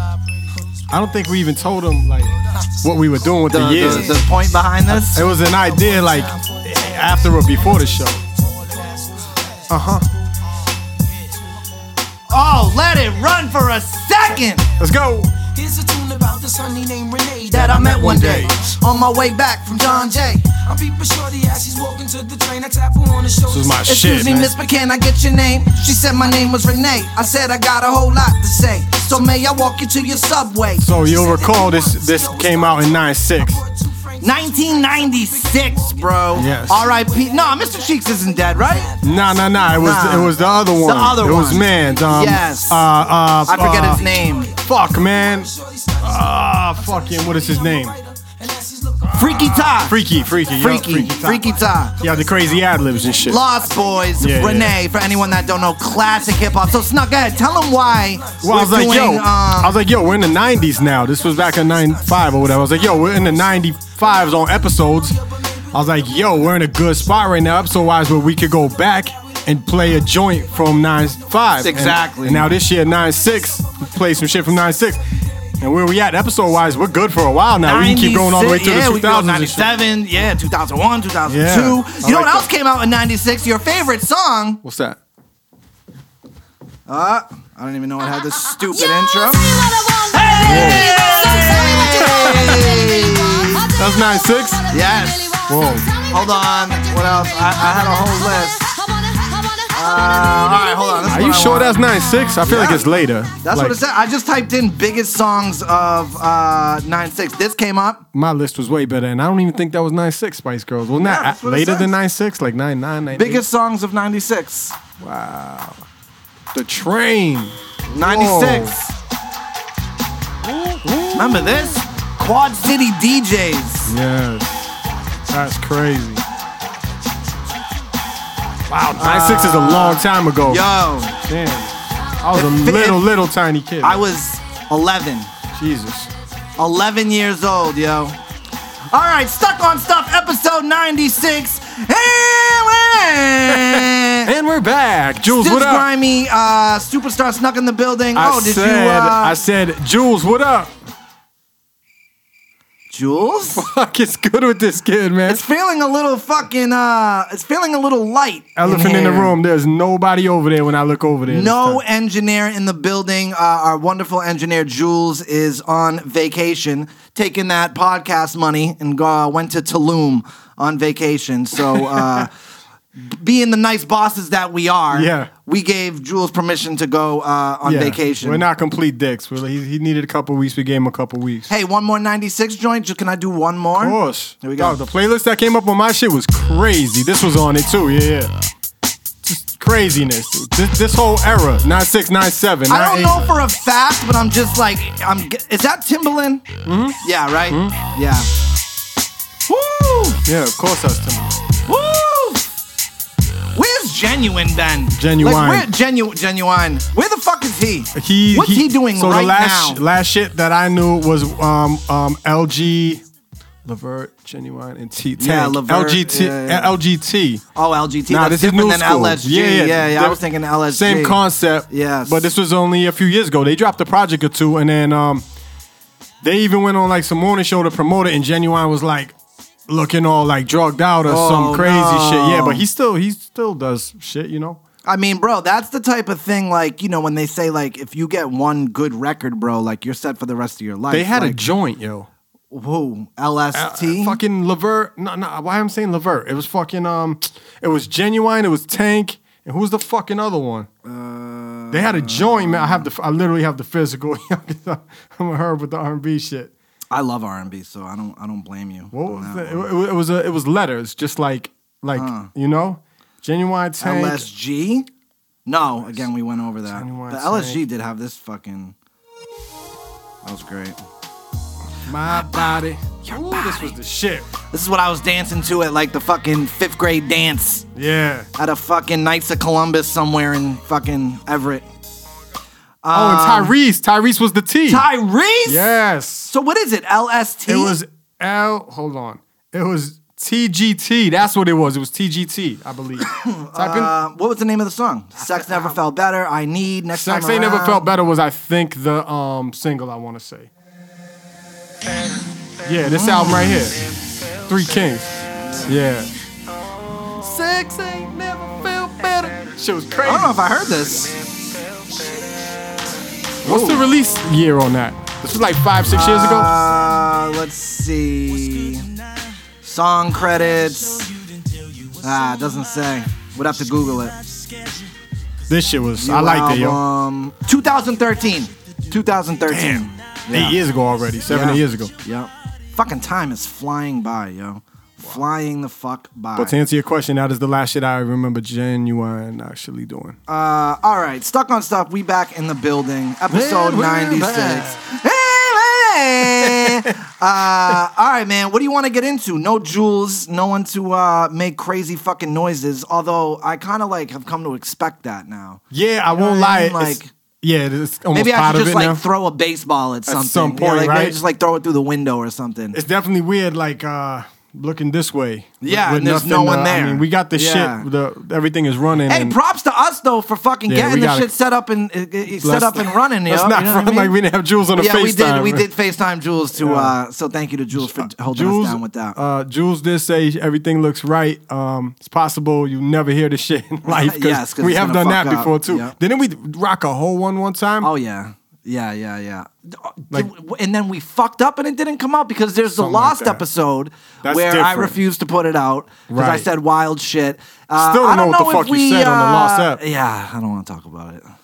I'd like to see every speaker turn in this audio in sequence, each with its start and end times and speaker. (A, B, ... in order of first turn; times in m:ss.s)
0:00.9-0:04.2 A
0:03.5-0:05.2 B
0:03.8-0:04.4 C
0:04.9-0:08.2 A
0:05.3-0:09.7 C
0:09.7-0:10.1 A
0:11.0-0:11.3 C
0:12.3-0:14.7 B
0:14.8-0:15.3 A
0:15.4-0:24.5 C
0:17.5-0:20.4 B
0:17.7-0:18.6 A
0:23.5-0:24.5 A
0:23.8-0:30.9 B
0:25.7-0:40.1 C
0:30.8-0:33.6 A
0:34.2-0:38.9 B
0:36.3-0:36.9 A
0:39.0-0:44.1 A
0:39.8-0:42.9 B
0:41.5-0:59.2 C
0:43.4-0:44.5 B
0:44.6-0:48.0 A
0:49.1-0:53.4 A
0:49.1-0:50.0 B
0:50.6-0:52.0 B
0:53.2-0:59.8 B
0:54.2-0:54.8 A
0:58.4-1:05.2 A
1:00.5-1:03.6 C
1:04.3-1:06.4 C
1:05.7-1:15.0 A
1:11.6-1:12.5 B
1:13.3-1:14.6 C
1:15.6-1:19.8 A
1:17.6-1:24.6 B
1:21.3-1:22.5 A
1:24.6-1:25.0 A
1:26.9-1:33.7 B
1:29.6-1:33.1 D
1:30.4-1:31.0 A
1:31.8-1:32.8 A
1:33.7-1:34.8 A
1:34.7-1:35.5 B
1:35.3-1:36.1 D
1:35.5-1:35.9 A
1:36.0-1:38.7 B
1:38.7-1:39.7 D
1:39.7-1:41.8 B
1:41.0-1:43.8 A
1:42.4-1:42.9 B
1:43.4-1:48.0 B
1:48.1-1:53.4 A
1:51.0-1:51.9 B
1:53.1-1:54.8 B
1:55.0-1:55.8 A
1:56.5-1:58.8 A
1:57.9-1:58.9 B
2:00.4-2:01.8 A
2:01.1-2:04.0 B
2:03.9-2:04.8 A
2:05.3-2:06.2 A
2:08.7-2:10.7 A
2:09.0-2:11.2 B
2:11.2-2:14.0 A
2:12.3-2:13.0 B
2:13.8-2:15.3 B
2:15.5-2:16.1 A
2:16.6-2:18.2 B
2:18.9-2:24.3 B
2:23.5-2:25.9 A
2:25.2-2:29.4 B
2:28.2-2:30.7 A
2:32.9-2:33.6 B
2:33.6-2:35.4 A
2:35.3-2:39.3 B
2:38.6-2:41.8 A
2:41.3-2:52.3 B
2:51.7-2:52.3 A
2:53.0-2:58.4 B
2:54.9-2:55.3 A
2:57.6-3:01.5 A
3:01.5-3:04.8 B
3:03.8-3:08.3 A
3:09.2-3:13.3 A
3:12.7-3:16.5 B
3:16.6-3:17.8 A
3:17.0-3:18.3 B
3:19.5-3:20.2 B
3:20.2-3:21.4 A
3:21.7-3:22.5 B
3:23.6-3:29.8 B
3:25.0-3:25.7 A
3:28.0-3:33.0 A
3:33.6-3:37.4 A
3:35.2-3:36.7 B
3:37.5-3:42.3 B
3:38.1-3:45.2 A
3:46.2-3:49.1 A
3:49.7-3:54.6 A
3:51.1-3:52.6 B
3:54.8-4:01.4 B
4:00.9-4:02.1 A
4:02.5-4:04.2 B
4:03.5-4:10.7 A
4:10.8-4:12.9 B
4:11.7-4:16.5 A
4:16.9-4:19.7 B
4:18.9-4:24.3 A
4:21.9-4:22.3 B
4:23.8-4:24.9 B
4:25.5-4:28.8 B
4:26.7-4:27.6 A
4:30.2-4:30.8 B
4:31.9-4:34.3 A
4:32.0-4:32.5 B
4:33.0-4:33.7 B
4:34.5-4:37.7 B
4:37.8-4:38.3 A
4:38.4-4:41.7 B
4:42.8-4:43.5 B
4:42.9-4:44.9 A
4:44.7-4:45.7 B
4:45.5-4:46.3 A
4:46.3-4:47.8 B
4:47.5-4:53.9 A
4:53.0-4:57.9 B
4:56.9-5:00.5 A
5:02.6-5:03.8 A
5:02.8-5:03.7 B
5:04.5-5:06.1 A
5:07.1-5:10.4 A
5:10.0-5:11.2 B
5:13.4-5:13.8 B
5:13.4-5:16.5 A
5:15.9-5:18.9 B
5:19.6-5:21.1 B
5:22.0-5:24.2 B
5:25.5-5:26.8 A
5:26.0-5:30.6 B
5:29.5-5:31.9 A
5:31.3-5:36.6 B
5:36.4-5:40.2 A
5:40.3-5:57.1 B
5:43.3-5:44.9 A
5:46.2-5:47.0 A
5:55.7-5:59.0 A
5:58.1-6:02.8 B
6:00.1-6:01.2 A
6:02.7-6:09.4 A
6:05.6-6:07.9 B
6:09.1-6:14.1 B
6:10.7-6:11.3 A
6:12.4-6:15.7 A
6:14.8-6:19.2 B
6:16.6-6:16.9 A
6:17.7-6:27.9 A
6:23.9-6:26.0 B
6:27.8-6:41.3 B
6:32.7-6:33.4 A
6:34.2-6:35.0 A
6:36.1-6:36.5 A
6:37.8-6:39.8 A